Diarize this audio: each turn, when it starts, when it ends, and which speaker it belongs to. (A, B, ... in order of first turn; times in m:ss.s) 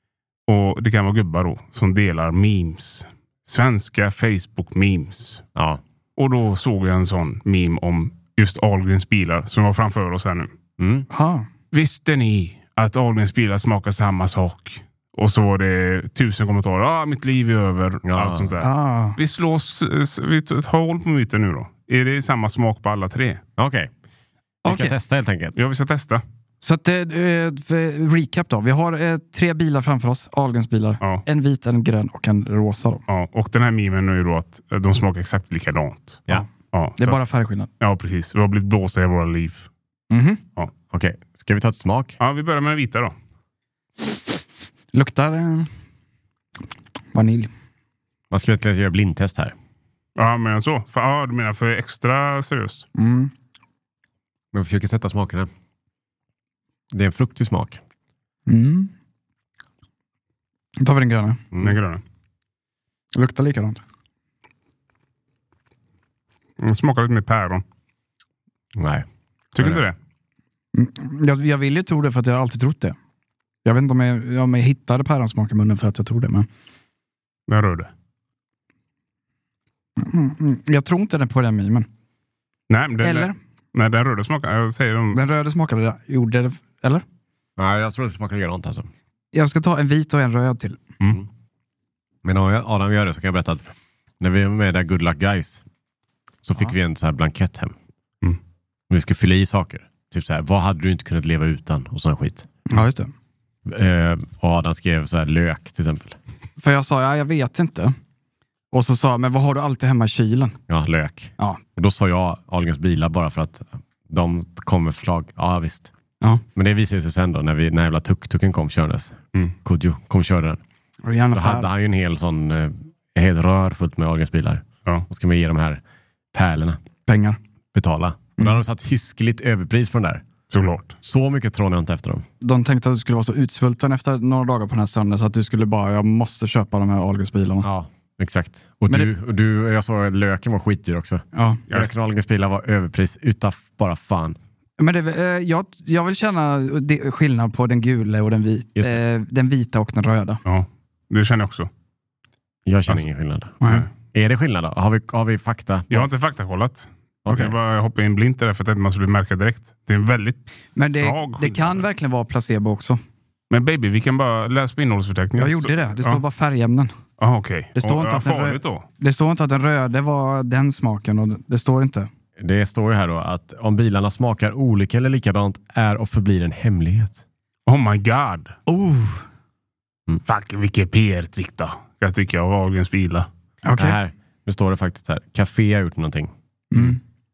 0:00.5-0:05.4 A
0:05.5-0:05.8 B
0:06.2-0:10.5 A
0:10.8-0:11.1 B
0:11.1-0:11.5 C
0:11.7-0:23.4 A
0:18.0-0:18.5 B
0:18.6-0:19.2 C
0:23.6-0:23.9 B
0:24.6-0:24.9 C
0:24.6-0:25.6 B
0:25.6-0:26.2 A
0:26.6-0:33.0 C
0:33.1-0:37.2 A
0:37.0-0:37.7 C
0:37.8-0:39.7 A
0:40.1-0:40.4 C
0:40.9-0:42.2 B
0:42.2-0:43.1 A
0:44.9-0:45.7 C
0:47.1-0:47.5 C
0:48.3-0:49.5 B
0:50.2-0:52.8 A
0:53.0-0:53.3 C
0:54.5-0:55.5 B
0:56.9-0:57.8 B
0:58.5-0:58.9 C
1:00.8-1:01.4 C
1:01.6-1:02.0 A
1:03.1-1:03.8 C
1:06.6-1:07.6 A
1:08.7-1:09.0 B
1:09.5-1:10.0 A
1:09.6-1:09.8 B
1:10.7-1:13.0 C
1:13.6-1:16.5 C
1:17.5-1:17.9 A
1:20.0-1:21.9 C
1:22.7-1:25.3 A
1:23.0-1:23.3 C
1:25.1-1:27.0 C
1:27.6-1:28.9 B
1:29.3-1:30.8 C
1:32.2-1:33.6 B
1:34.2-1:35.6 B
1:36.4-1:37.7 B
1:38.9-1:42.5 B
1:42.7-1:43.1 C
1:43.6-1:46.2 B
1:46.6-1:47.9 C
1:48.7-1:50.6 C
1:50.7-1:55.9 B
1:56.5-2:00.6 B
2:01.0-2:01.7 C
2:01.3-2:05.8 B
2:06.3-2:06.8 B
2:07.0-2:07.4 C
2:07.7-2:10.2 B
2:10.5-2:10.9 A
2:11.0-2:12.2 B
2:12.4-2:17.7 C
2:17.6-2:24.4 B
2:21.3-2:21.6 C
2:24.8-2:30.4 C
2:28.8-2:29.0 B
2:30.4-2:31.7 A
2:32.6-2:33.6 B
2:33.6-2:33.8 C
2:34.1-2:36.1 B
2:35.9-2:41.8 A
2:37.2-2:37.5 B
2:40.8-2:43.0 C
2:43.5-2:46.2 A
2:45.4-2:46.9 C
2:47.2-2:48.8 A
2:47.8-2:52.1 C
2:52.4-2:57.2 B
2:57.7-2:58.6 A
2:58.7-2:59.2 C
3:00.2-3:03.3 A
3:03.6-3:04.0 C
3:03.8-3:07.0 B
3:06.7-3:07.0 C